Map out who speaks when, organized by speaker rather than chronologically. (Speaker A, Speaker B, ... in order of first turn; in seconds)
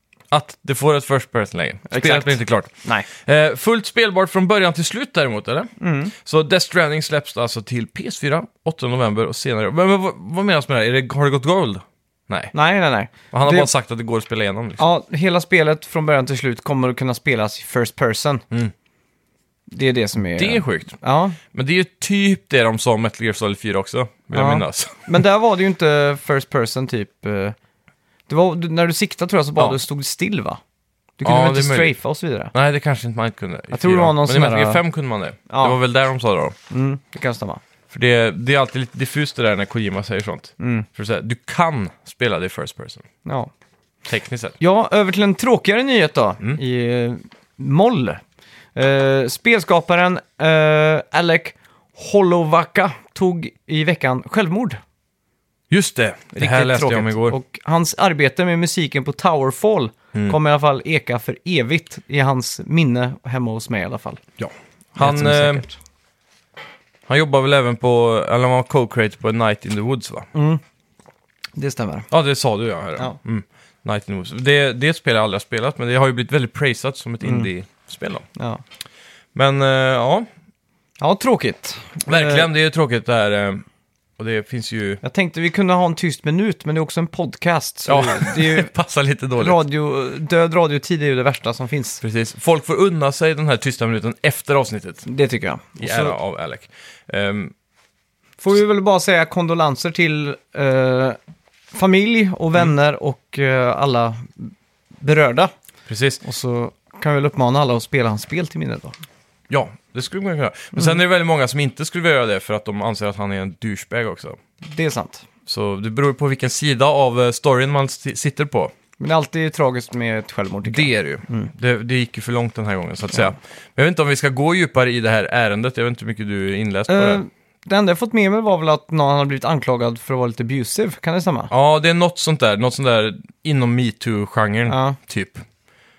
Speaker A: 0.3-12.5, 13.3-14.8, 20.4-25.1, 31.2-31.9, 32.5-36.5, 37.9-43.0, 44.0-44.6, 55.7-57.4, 64.4-65.6, 67.1-70.3, 72.1-78.2, 79.3-80.3, 82.0-83.6, 84.2-85.0, 87.9-89.6, 92.0-95.0, 95.8-97.5, 105.9-106.2, 109.5-114.4, 115.5-118.7, 120.6-127.2, 131.5-135.4
Speaker B: 1.9-3.1, 5.8-6.1, 12.5-13.7, 14.8-18.4, 19.7-21.4, 24.3-27.6, 28.3-30.6, 31.2-32.5, 33.7-34.8, 35.5-35.8, 36.7-37.6, 40.6-40.9, 43.2-43.5, 44.6-48.2, 48.7-54.8, 56.4-64.2, 65.0-65.8, 70.3-70.6, 71.6-72.1, 77.2-77.5, 78.3-78.6, 81.0-82.5, 85.0-88.7, 89.4-92.0, 95.0-96.2, 98.4-101.2, 101.7-105.5, 106.2-108.9, 114.7-115.2, 119.0-121.5, 126.9-131.5, 134.7-135.0